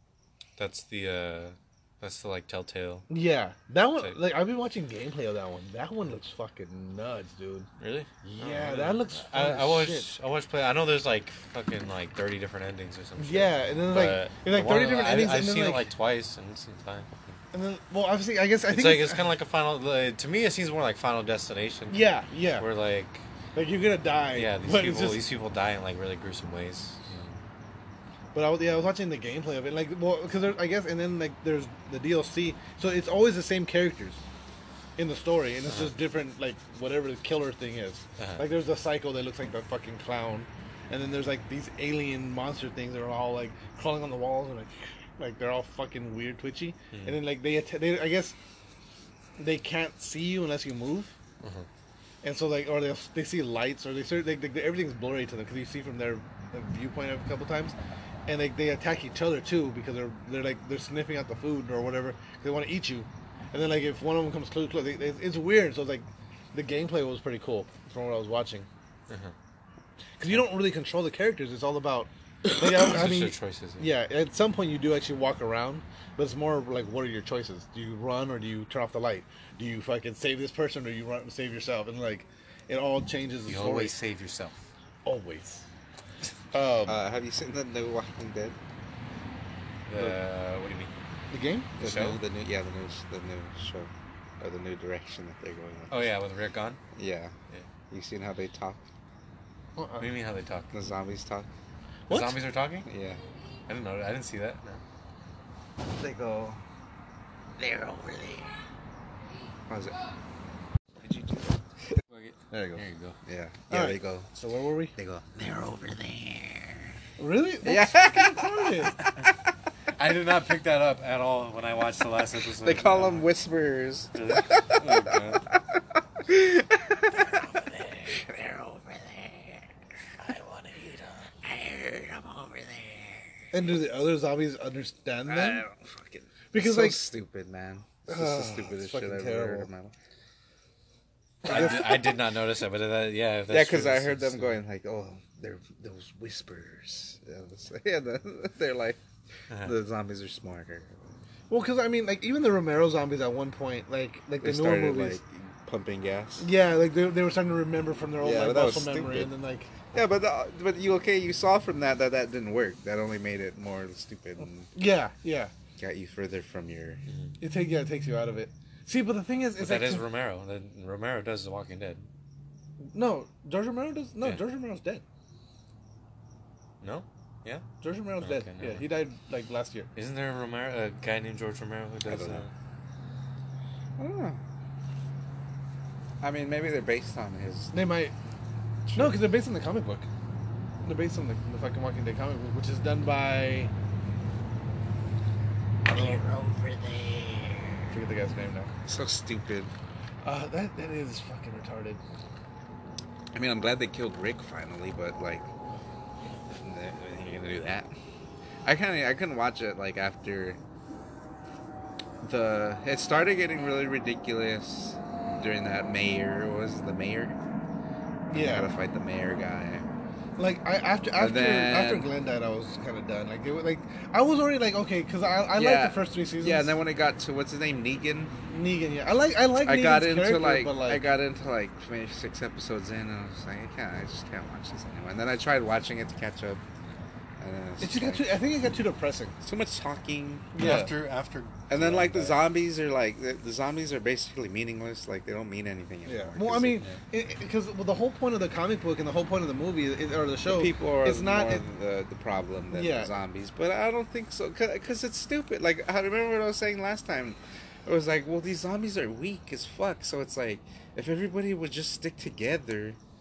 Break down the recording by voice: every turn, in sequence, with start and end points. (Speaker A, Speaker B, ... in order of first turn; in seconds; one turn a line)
Speaker A: 0.6-3.1
Speaker B: 3.1-7.7
Speaker A: 7.8-17.3
Speaker B: 8.2-10.1
Speaker B: 13.2-15.9
Speaker B: 17.5-19.2
Speaker A: 18.7-23.2
Speaker B: 21.9-22.7
Speaker B: 23.5-25.2
Speaker A: 24.3-27.4
Speaker B: 28.3-34.2
Speaker B: 35.0-48.3
Speaker A: 35.7-35.9
Speaker A: 38.2-38.4
Speaker A: 46.9-47.2
Speaker B: 49.4-51.1
Speaker A: 51.4-51.7
Speaker B: 52.2-57.7
Speaker B: 58.3-68.7
Speaker A: 69.1-69.3
Speaker B: 70.2-84.0
Speaker A: 72.5-73.9
Speaker A: 83.5-84.7
Speaker B: 85.0-85.7
Speaker B: 86.5-87.0
Speaker C: 86.8-88.6
Speaker A: 89.9-90.9
Speaker B: 91.3-91.7
Speaker A: 91.8-92.2
Speaker C: 91.8-96.2
Speaker A: 95.9-96.8
Speaker C: 96.9-97.3
Speaker C: 97.9-98.8
Speaker B: 99.8-100.1
Speaker A: 100.0-100.8
Speaker C: 100.7-101.5
Speaker B: 102.1-102.4
Speaker A: 102.1-102.9
Speaker C: 102.8-103.2
Speaker A: 103.7-104.8
Speaker B: 106.0-106.6
Speaker C: 107.6-108.5
Speaker C: 109.7-110.0
Speaker C: 111.0-111.6
Speaker A: 112.1-113.2
Speaker B: 112.5-112.8
Speaker C: 113.2-114.3
Speaker B: 113.7-114.9
Speaker C: 115.0-116.9
Speaker B: 117.2-119.0
Speaker C: 117.6-118.5
Speaker A: 120.0-123.3
Speaker C: 122.6-127.5
Speaker A: 124.1-125.4
Speaker A: 127.2-128.2
Speaker C: 128.1-129.7
Speaker A: 130.2-131.3
Speaker C: 131.4-133.3
Speaker B: 133.5-135.7
Speaker C: 135.3-139.9
Speaker B: 136.5-137.0
Speaker B: 138.1-139.7
Speaker B: 141.4-142.1
Speaker A: 141.4-144.6
Speaker C: 141.4-142.1
Speaker C: 143.5-149.0
Speaker A: 149.5-149.7
Speaker C: 149.6-151.0
Speaker B: 151.5-155.2
Speaker C: 154.4-156.5
Speaker B: 156.4-159.8
Speaker C: 158.2-159.3
Speaker C: 159.9-164.7
Speaker B: 164.4-165.5
Speaker C: 165.8-167.0
Speaker B: 167.4-170.0
Speaker A: 169.6-172.1
Speaker B: 172.8-175.0
Speaker A: 176.8-177.7
Speaker B: 177.8-179.9
Speaker A: 178.2-179.0
Speaker A: 179.9-182.5
Speaker C: 182.0-182.4
Speaker C: 184.0-184.4
Speaker C: 186.2-187.7
Speaker B: 187.7-188.1
Speaker C: 188.8-189.3
Speaker B: 188.9-190.1
Speaker B: 190.8-193.7
Speaker B: 195.9-196.3
Speaker C: 196.4-197.1
Speaker B: 197.9-198.7
Speaker C: 198.8-199.7
Speaker B: 200.2-202.0
Speaker C: 203.3-205.5
Speaker C: 206.6-207.9
Speaker C: 208.6-210.6
Speaker C: 212.2-217.4
Speaker C: 218.3-219.8
Speaker B: 218.3-218.7
Speaker B: 220.4-226.8
Speaker C: 221.2-222.1
Speaker C: 225.5-228.3
Speaker B: 228.5-231.1
Speaker C: 229.6-236.6
Speaker C: 237.4-238.4
Speaker B: 237.8-239.3
Speaker C: 239.4-240.5
Speaker B: 240.5-240.9
Speaker A: 240.6-242.4
Speaker C: 241.7-246.8
Speaker B: 246.0-251.6
Speaker C: 250.4-263.0
Speaker B: 252.7-253.1